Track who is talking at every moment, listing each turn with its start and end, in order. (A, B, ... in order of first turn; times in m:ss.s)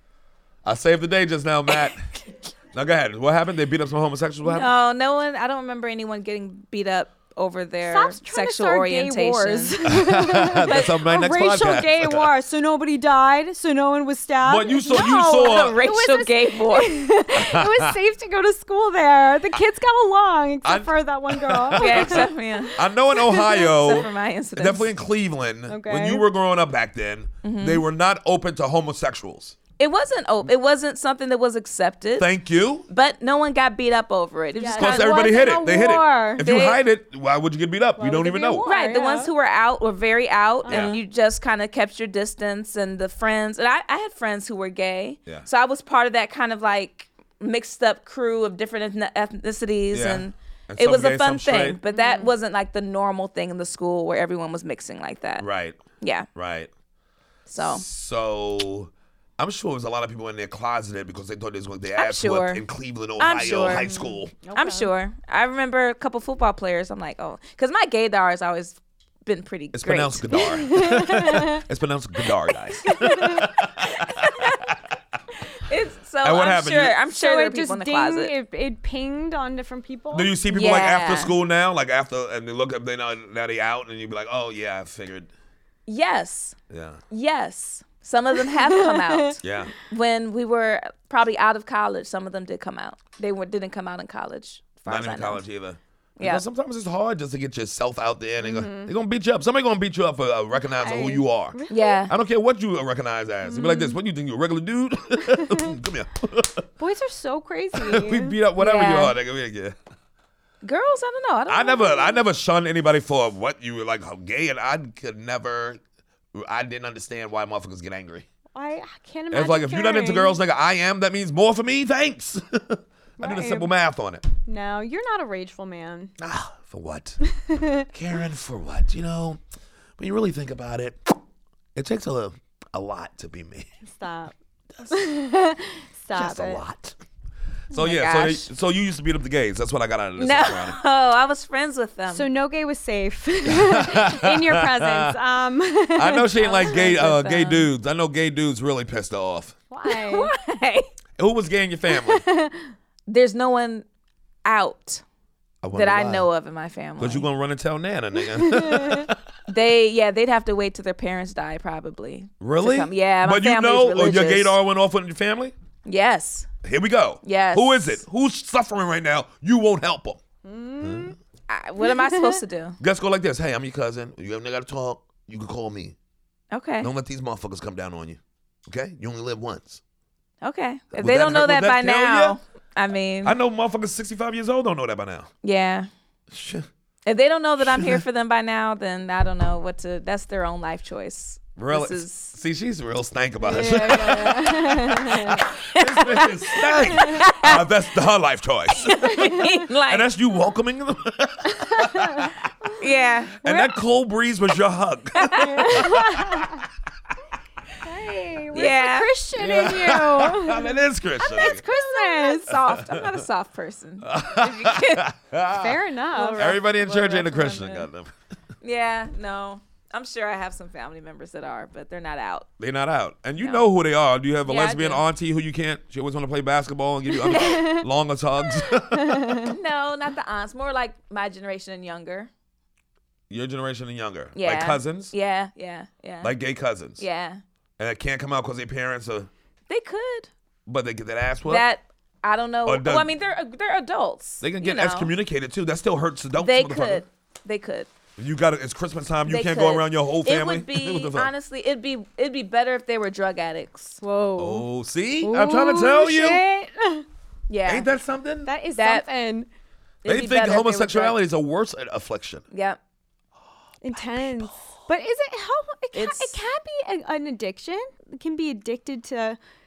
0:00.6-0:02.1 A
0:02.7-0:04.7 A
0:04.4-0:09.8 B
0:07.8-0:24.0 C
0:09.9-0:12.3 A
0:10.7-0:10.9 B
0:14.4-0:15.8 A
0:14.9-0:17.1 B
0:17.3-0:18.0 A
0:20.6-0:29.6 A
0:21.7-0:24.9 B
0:25.7-0:26.2 C
0:27.4-0:27.8 B
0:29.8-0:32.3 B
0:32.2-0:32.9 A
0:32.9-0:35.5 B
0:34.6-0:36.5 C
0:34.8-0:38.6 A
0:36.4-0:36.8 B
0:38.0-0:39.3 C
0:38.6-0:55.4 B
0:40.7-0:41.0 C
0:40.7-0:41.0 A
0:49.9-0:51.8 A
0:51.9-0:52.3 C
0:55.4-0:55.8 A
0:56.0-0:56.3 B
0:56.3-0:56.7 A
0:57.5-0:57.8 B
0:57.6-1:04.3 A
1:01.9-1:02.6 B
1:03.2-1:03.9 B
1:03.8-1:04.9 C
1:04.5-1:10.6 B
1:09.7-1:14.9 A
1:10.3-1:11.6 C
1:12.9-1:13.4 C
1:13.8-1:14.6 B
1:15.6-1:18.3 B
1:16.2-1:16.9 A
1:17.1-1:20.7 C
1:20.1-1:25.3 A
1:20.5-1:21.4 B
1:25.9-1:26.6 B
1:26.7-1:27.0 A
1:27.1-1:35.4 B
1:28.5-1:29.3 C
1:29.4-1:29.7 A
1:34.9-1:41.6 A
1:36.2-1:36.4 B
1:38.4-1:38.9 C
1:40.8-1:42.0 C
1:41.7-1:42.1 B
1:42.1-1:46.6 A
1:43.4-1:44.0 C
1:45.3-1:45.7 C
1:46.8-1:48.4 C
1:47.7-1:49.8 A
1:48.6-1:49.2 B
1:50.6-1:52.2 B
1:51.5-1:55.8 A
1:56.3-1:58.2 A
1:58.5-2:00.4 C
1:59.3-2:04.2 A
2:03.2-2:03.7 C
2:04.5-2:06.1 C
2:06.2-2:07.2 A
2:07.2-2:07.9 C
2:07.9-2:09.4 A
2:10.0-2:11.2 A
2:11.7-2:13.7 A
2:13.8-2:14.3 C
2:14.9-2:16.6 C
2:16.1-2:17.0 A
2:17.7-2:20.8 A
2:17.7-2:18.5 B
2:20.2-2:22.3 B
2:22.1-2:27.7 C
2:23.5-2:25.2 A
2:25.9-2:29.5 A
2:29.7-2:30.3 C
2:29.8-2:30.9 B
2:31.2-2:32.2 A
2:31.9-2:32.7 C
2:33.1-2:33.8 B
2:34.4-2:35.0 B
2:35.6-2:36.2 A
2:35.7-2:37.2 B
2:37.0-2:39.2 A
2:38.3-2:39.1 C
2:39.5-2:44.6 B
2:42.4-2:45.5 A
2:45.8-2:46.5 B
2:46.6-2:50.2 A
2:47.2-2:48.0 B
2:50.4-2:51.2 C
2:50.8-2:51.1 A
2:51.5-2:52.8 B
2:51.8-2:52.4 C
2:52.8-2:55.9 A
2:56.5-2:56.9 B
2:56.8-2:59.8 A
3:00.4-3:03.3 B
3:00.9-3:02.4 A
3:03.2-3:05.3 A
3:05.4-3:05.9 B
3:06.3-3:06.7 A
3:07.0-3:12.3 B
3:07.6-3:08.0 A
3:11.6-3:19.1 A
3:13.4-3:15.4 C
3:13.6-3:14.3 B
3:15.4-3:17.6 B
3:16.9-3:17.2 C
3:18.8-3:20.1 B
3:19.1-3:19.6 C
3:19.9-3:22.3 A
3:21.6-3:22.3 C
3:22.8-3:23.5 B
3:23.4-3:26.4 A
3:25.2-3:25.9 B
3:25.4-3:26.6 C
3:27.8-3:30.7 C
3:28.5-3:29.1 B
3:29.4-3:31.6 A
3:31.2-3:32.5 C
3:31.2-3:35.1 B
3:32.5-3:33.2 A
3:34.0-3:35.8 A
3:35.5-3:36.6 C
3:36.1-3:37.9 B
3:36.4-3:38.1 A
3:38.6-3:42.5 B
3:42.6-3:49.5 A
3:43.4-3:43.6 B
3:44.4-3:45.0 B
3:47.3-3:47.8 C
3:48.9-3:49.5 C
3:49.5-3:52.3 B
3:53.3-3:55.1 A
3:54.4-3:56.3 B
3:56.2-3:57.0 A
3:57.0-3:57.4 B
3:57.8-3:59.3 A
3:59.7-4:00.3 B
4:00.6-4:01.6 A
4:01.5-4:05.1 B
4:02.6-4:03.1 A
4:04.4-4:07.0 A
4:06.4-4:07.9 B
4:08.2-4:11.3 A
4:09.2-4:14.0 B
4:14.0-4:14.7 C
4:14.4-4:16.4 A
4:15.2-4:17.0 C
4:17.5-4:17.9 B
4:17.6-4:18.5 A
4:18.4-4:19.5 C
4:18.8-4:19.0 B
4:20.0-4:21.2 B
4:20.0-4:22.4 A
4:22.5-4:22.8 B
4:23.8-4:29.4 C
4:25.9-4:26.4 B